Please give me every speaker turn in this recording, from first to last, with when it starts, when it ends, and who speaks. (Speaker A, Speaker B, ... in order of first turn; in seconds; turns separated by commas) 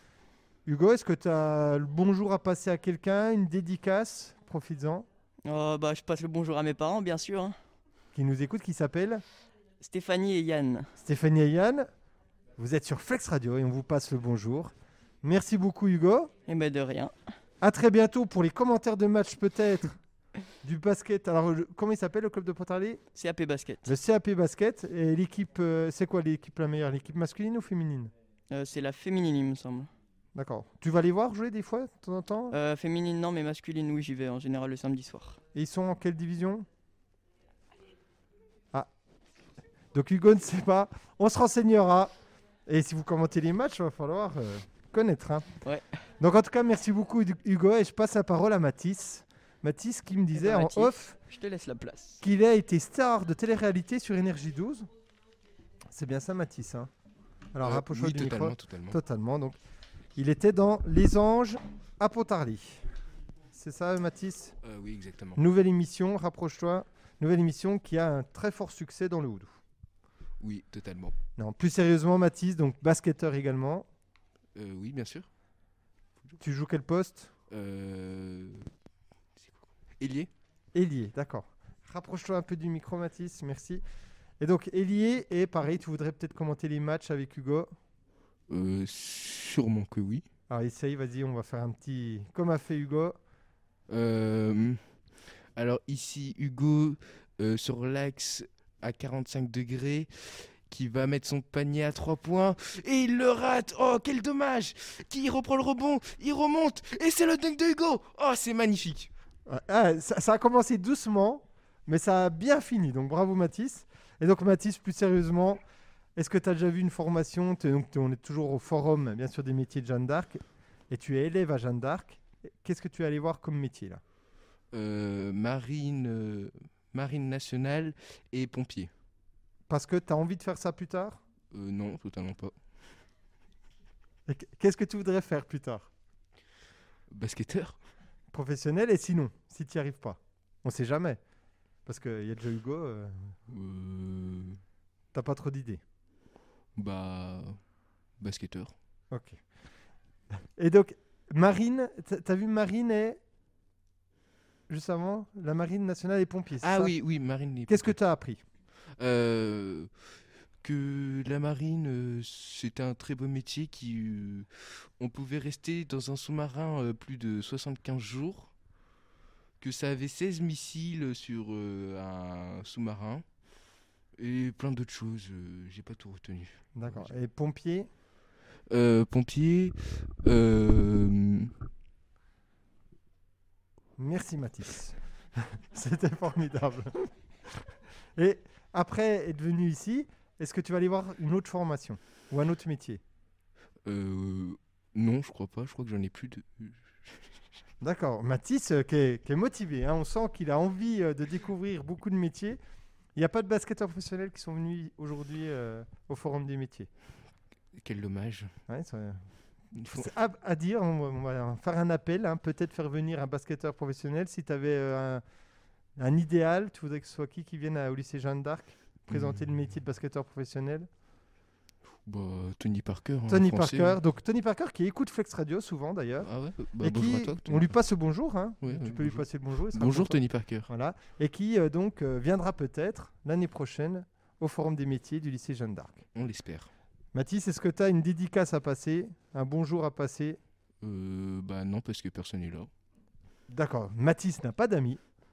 Speaker A: 0.7-5.1, Speaker B: 5.5-7.5, Speaker A: 8.1-9.2, Speaker B: 9.8-10.9, Speaker A: 11.0-11.9, Speaker A: 12.6-16.3, Speaker B: 16.5-17.1, Speaker A: 17.6-20.0, Speaker A: 20.6-23.0, Speaker B: 23.1-23.9, Speaker A: 23.8-28.1, Speaker B: 28.5-29.9, Speaker A: 30.3-32.6, Speaker B: 32.5-35.4, Speaker A: 35.5-36.7, Speaker A: 39.9-42.1, Speaker A: 42.7-45.5, Speaker A: 46.2-51.2, Speaker B: 50.3-52.2, Speaker A: 52.2-54.9, Speaker A: 55.9-56.9, Speaker A: 57.5-59.6, Speaker C: 57.6-59.0, Speaker A: 60.1-62.9, Speaker A: 63.5-64.5, Speaker C: 64.6-65.4, Speaker A: 65.3-69.6, Speaker C: 70.4-71.1, Speaker A: 71.4-73.9, Speaker C: 74.5-75.3, Speaker A: 76.4-77.3, Speaker C: 77.5-78.7, Speaker C: 79.4-80.3, Speaker A: 80.7-83.8, Speaker A: 84.4-87.7, Speaker C: 88.5-90.2, Speaker A: 90.5-93.2, Speaker C: 93.9-94.8, Speaker C: 95.5-109.1, Speaker A: 109.5-115.6, Speaker A: 116.2-124.0, Speaker C: 124.7-128.9, Speaker A: 129.7-131.2, Speaker C: 131.5-132.5, Speaker A: 134.3-135.9, Speaker C: 137.1-137.8, Speaker A: 138.3-141.2, Speaker A: 141.8-143.3, Speaker C: 143.5-144.6, Speaker A: 145.1-145.8, Speaker C: 146.8-147.6, Speaker C: 148.2-148.7, Speaker A: 149.1-149.4, Speaker A: 150.6-153.2, Speaker A: 154.7-156.9, Speaker C: 156.6-158.0, Speaker A: 157.7-158.4, Speaker C: 159.0-168.5, Speaker C: 169.6-173.2, Speaker C: 174.2-177.1, Speaker A: 176.7-177.9, Speaker C: 178.7-181.5, Speaker A: 184.0-187.6, Speaker A: 188.2-193.0, Speaker C: 193.8-197.2, Speaker A: 197.8-202.6, Speaker A: 203.1-206.9, Speaker C: 207.7-208.5, Speaker A: 208.7-209.2, Speaker C: 209.7-210.1, Speaker A: 209.9-215.2, Speaker A: 216.0-220.9, Speaker C: 219.1-219.6, Speaker C: 222.0-224.0, Speaker A: 223.3-236.0, Speaker C: 226.2-227.8, Speaker C: 228.6-230.7, Speaker C: 236.2-236.7, Speaker A: 237.1-240.4, Speaker C: 240.8-242.7, Speaker A: 243.5-245.0